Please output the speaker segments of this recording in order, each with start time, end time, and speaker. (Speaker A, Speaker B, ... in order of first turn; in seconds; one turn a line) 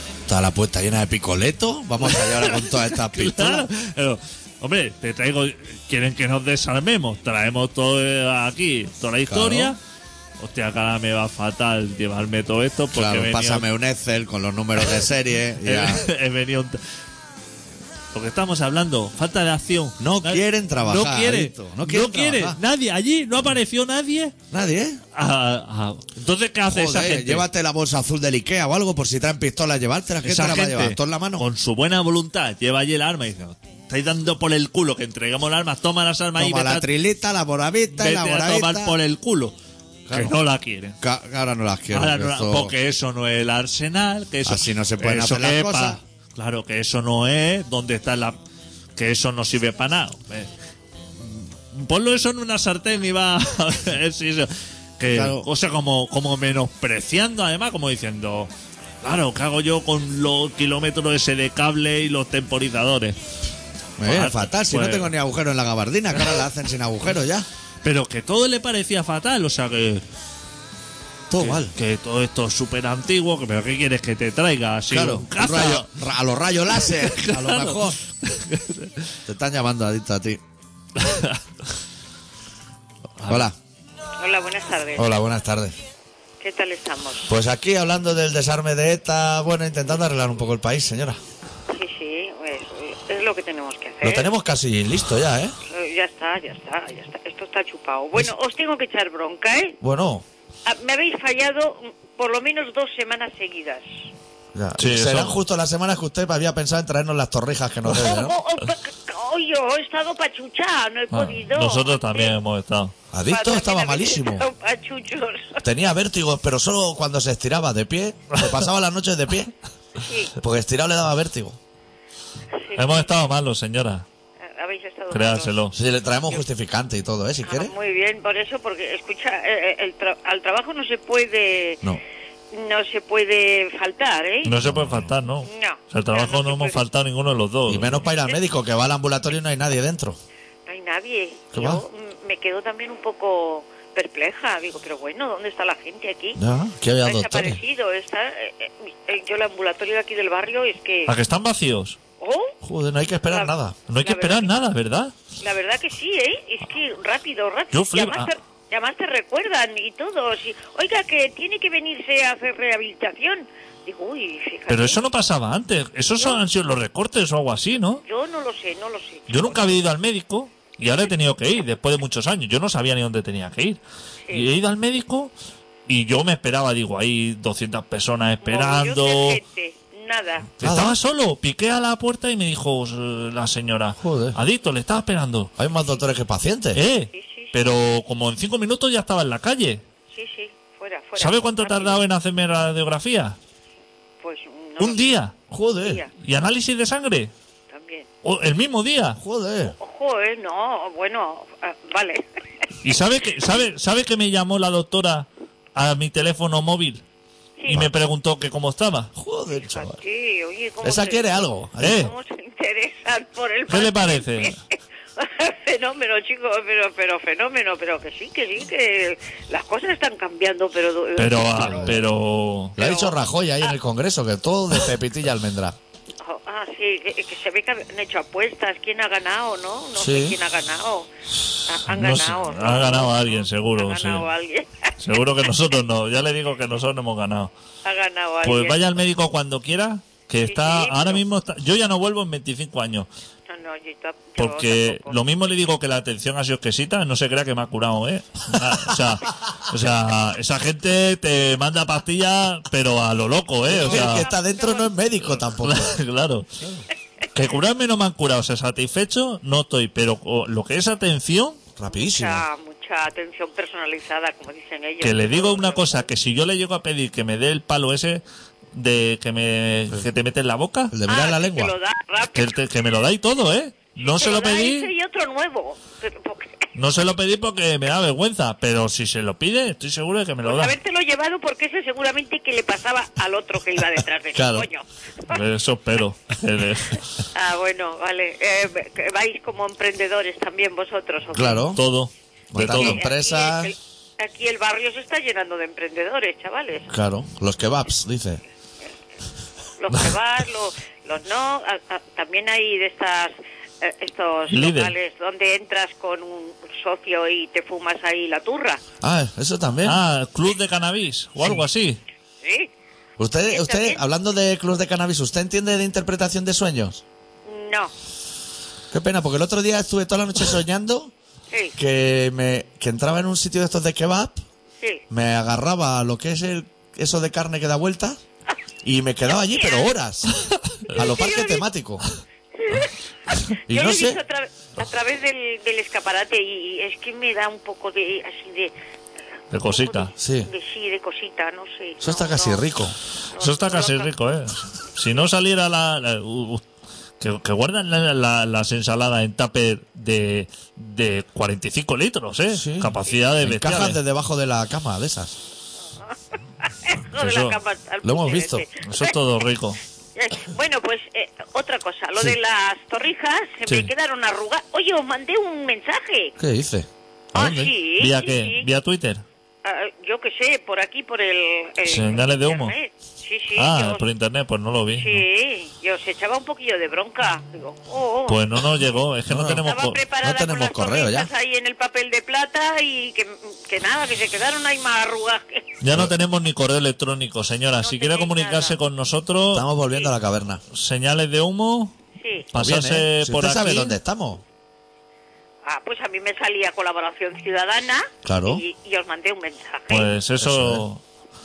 Speaker A: 0.3-3.7
Speaker B: 2.0-9.8
Speaker A: 9.3-9.8
Speaker B: 10.4-13.7
Speaker A: 12.9-16.0
Speaker B: 15.6-16.8
Speaker B: 18.1-24.3
Speaker A: 20.0-22.6
Speaker A: 24.5-25.0
Speaker B: 25.1-27.4
Speaker A: 26.7-31.4
Speaker B: 30.2-36.9
Speaker A: 36.4-39.0
Speaker B: 37.9-39.5
Speaker A: 40.1-40.3
Speaker B: 40.1-41.0
Speaker A: 41.0-42.7
Speaker B: 41.9-48.4
Speaker A: 44.4-46.0
Speaker B: 49.0-50.5
Speaker B: 51.2-58.5
Speaker A: 55.1-55.4
Speaker B: 59.0-63.2
Speaker A: 64.0-67.5
Speaker B: 64.0-65.1
Speaker B: 67.8-70.0
Speaker A: 71.3-71.7
Speaker B: 71.3-75.9
Speaker A: 74.9-78.0
Speaker B: 76.7-79.2
Speaker A: 79.3-80.4
Speaker B: 81.0-81.4
Speaker B: 83.2-83.5
Speaker A: 83.2-83.5
Speaker C: 84.2-85.1
Speaker A: 85.0-85.8
Speaker C: 86.4-87.3
Speaker A: 87.3-91.2
Speaker C: 91.7-94.3
Speaker A: 94.0-95.5
Speaker C: 95.7-99.8
Speaker A: 99.8-100.2
Speaker C: 100.6-103.9
Speaker A: 104.5-108.4
Speaker B: 104.8-105.4
Speaker C: 107.9-112.3
Speaker B: 111.1-112.9
Speaker A: 113.1-114.5
Speaker C: 113.3-115.6
Speaker A: 115.6-119.5
Speaker C: 120.0-120.3
Speaker A: 120.4-121.6
Speaker C: 122.6-123.1
Speaker B: 122.7-124.0
Speaker C: 124.4-125.5
Speaker B: 125.1-125.8
Speaker A: 125.7-127.7
Speaker C: 127.4-131.8
Speaker C: 132.5-134.6
Speaker B: 134.4-138.1
Speaker A: 134.6-135.1
Speaker C: 135.4-136.8
Speaker A: 137.7-140.2
Speaker C: 140.7-146.4
Speaker A: 141.5-141.8
Speaker A: 146.3-147.6
Speaker C: 147.0-151.2
Speaker B: 151.1-152.0
Speaker C: 152.2-152.6
Speaker A: 152.6-153.8
Speaker C: 153.2-154.6
Speaker B: 153.9-155.1
Speaker C: 155.4-165.0
Speaker B: 157.7-158.3
Speaker B: 164.7-168.0
Speaker C: 168.0-169.8
Speaker B: 169.3-173.8
Speaker B: 174.3-175.3
Speaker B: 175.9-179.4
Speaker C: 178.4-180.5
Speaker B: 180.6-185.5
Speaker A: 180.6-181.0
Speaker A: 184.0-184.4
Speaker A: 185.6-186.8
Speaker B: 186.7-189.8
Speaker C: 187.1-187.5
Speaker C: 190.1-192.0
Speaker B: 191.2-193.4
Speaker C: 194.2-195.1
Speaker B: 194.8-195.3
Speaker A: 195.5-196.0
Speaker C: 195.8-196.1
Speaker B: 196.2-197.3
Speaker C: 197.7-198.1
Speaker B: 198.2-199.2
Speaker A: 199.2-199.8
Speaker C: 199.7-202.2
Speaker B: 202.8-207.0
Speaker C: 207.6-207.8
Speaker B: 207.7-209.1
Speaker A: 209.2-210.0
Speaker C: 209.7-222.0
Speaker A: 210.8-212.1
Speaker B: 211.8-212.1
Speaker B: 213.7-214.6
Speaker B: 221.2-222.8
Speaker A: 221.6-221.9
Speaker A: 222.8-225.8
Speaker C: 222.8-223.7
Speaker C: 226.2-231.1
Speaker A: 229.9-230.4
Speaker C: 231.7-235.5
Speaker B: 231.9-234.3
Speaker B: 235.0-237.5
Speaker C: 237.8-238.8
Speaker B: 238.4-243.1
Speaker C: 240.4-241.2
Speaker C: 243.5-245.2
Speaker B: 244.4-254.3
Speaker C: 253.7-254.9
Speaker A: 253.7-256.0
Speaker B: 255.6-256.8
Speaker B: 257.3-261.6
Speaker A: 261.8-262.4
Speaker C: 261.9-266.1
Speaker B: 265.0-268.2
Speaker B: 268.7-270.9
Speaker A: 270.9-271.7
Speaker C: 271.1-272.5
Speaker B: 272.3-274.9
Speaker C: 274.0-276.5
Speaker B: 276.7-280.7
Speaker C: 280.4-285.4
Speaker A: 284.3-284.7
Speaker B: 285.3-287.0
Speaker C: 287.3-291.7
Speaker A: 291.3-291.8
Speaker B: 291.7-293.0
Speaker A: 292.5-293.7
Speaker C: 292.6-296.9
Speaker A: 296.9-298.4
Speaker C: 299.8-308.8
Speaker B: 304.5-304.9
Speaker A: 309.0-310.0
Speaker B: 309.8-312.0
Speaker C: 312.4-312.7
Speaker A: 313.2-317.0
Speaker C: 313.4-314.0
Speaker C: 317.4-317.9
Speaker A: 318.9-321.1
Speaker C: 321.5-321.8
Speaker A: 321.8-324.4
Speaker A: 325.1-328.2
Speaker A: 328.8-332.0
Speaker C: 329.4-329.9
Speaker C: 330.9-331.6
Speaker C: 332.5-338.7
Speaker A: 333.7-334.2
Speaker B: 339.5-340.1
Speaker C: 339.6-342.7
Speaker A: 340.2-340.5
Speaker A: 342.0-343.0
Speaker C: 343.3-344.1
Speaker B: 343.4-346.6
Speaker B: 347.2-354.0
Speaker A: 352.5-355.4
Speaker C: 356.1-359.1
Speaker B: 357.1-357.6
Speaker A: 358.0-358.6
Speaker B: 358.8-359.8
Speaker C: 360.1-366.3
Speaker A: 366.4-367.7
Speaker C: 367.3-368.6
Speaker B: 368.0-369.2
Speaker C: 369.6-374.0
Speaker B: 371.8-372.7
Speaker B: 373.6-375.2
Speaker C: 374.9-378.4
Speaker B: 378.3-380.0
Speaker A: 379.3-379.6
Speaker C: 379.6-385.7
Speaker A: 380.2-381.3
Speaker B: 385.8-389.7
Speaker C: 387.8-388.8
Speaker A: 389.5-390.6
Speaker B: 390.7-391.9
Speaker C: 392.2-392.5
Speaker B: 392.5-394.0
Speaker A: 392.5-394.4
Speaker C: 395.6-400.1
Speaker A: 398.2-398.6
Speaker B: 399.9-401.0
Speaker A: 400.4-400.8